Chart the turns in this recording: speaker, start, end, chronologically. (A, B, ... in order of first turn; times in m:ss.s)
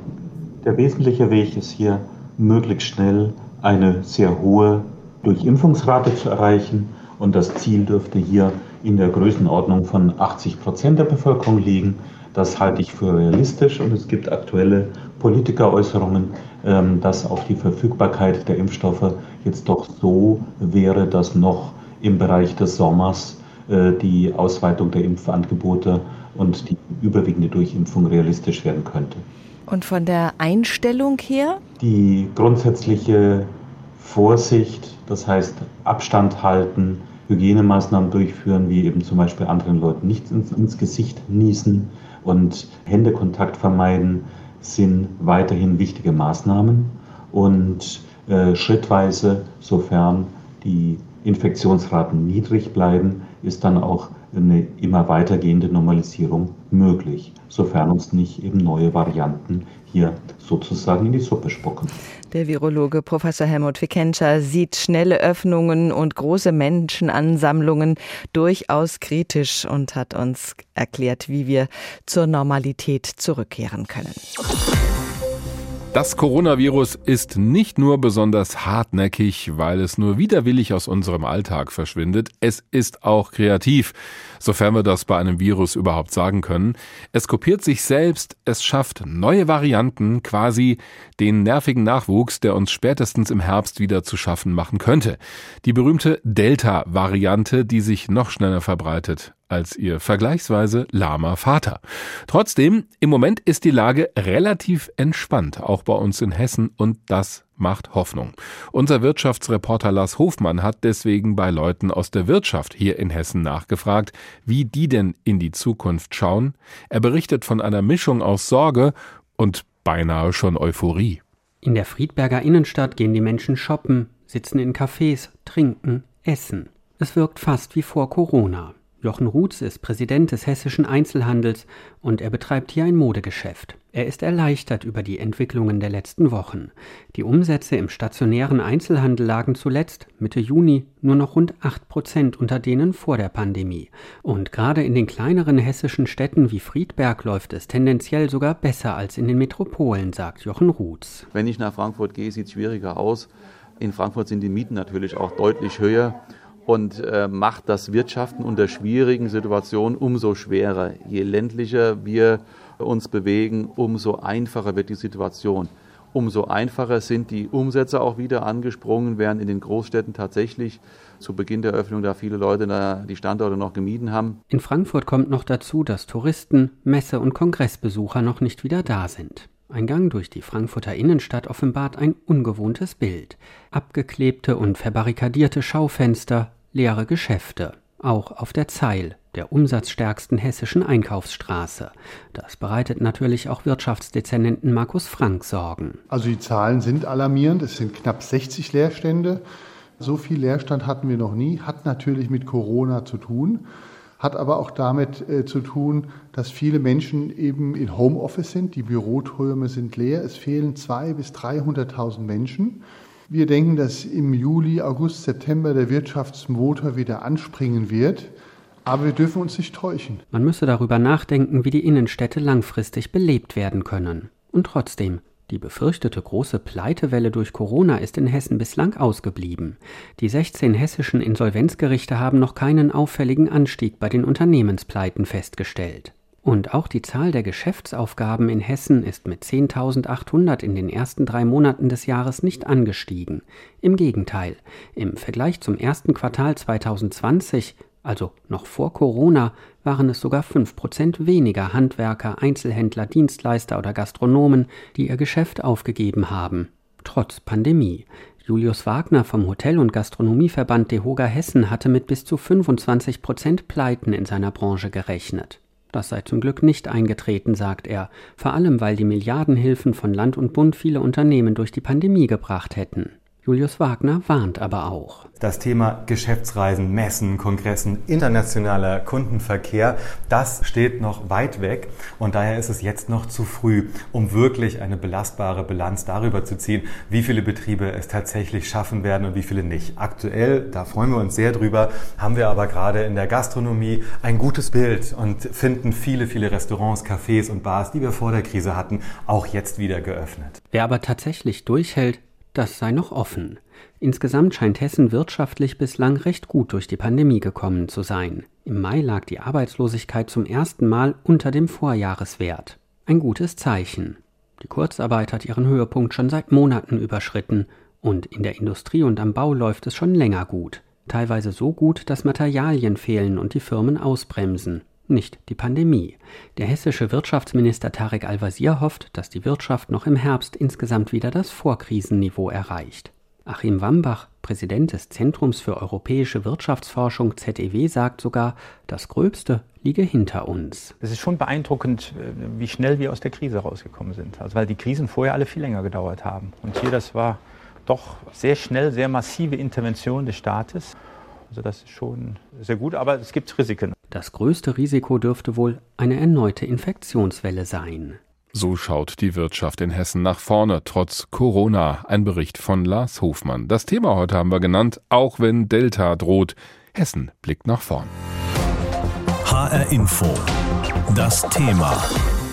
0:00.6-0:29.2 A
0:29.7-0:31.6 B
0:31.8-1:01.9 A
1:02.3-1:14.3 B
1:15.9-2:01.2 C
2:01.6-2:31.3 D
2:31.3-2:54.4 E
2:54.5-3:16.0 D
3:16.1-3:19.4 F
3:20.0-3:23.7 F
3:24.2-3:38.3 F
3:38.9-3:40.2 F
3:40.3-4:35.3 D
4:35.4-5:00.6 G
5:00.7-5:41.0 D
5:41.0-5:51.0 H
5:51.5-5:53.9 H
5:54.1-5:58.2 D
5:58.5-6:08.1 C
6:09.4-6:10.5 I
6:11.1-6:12.1 I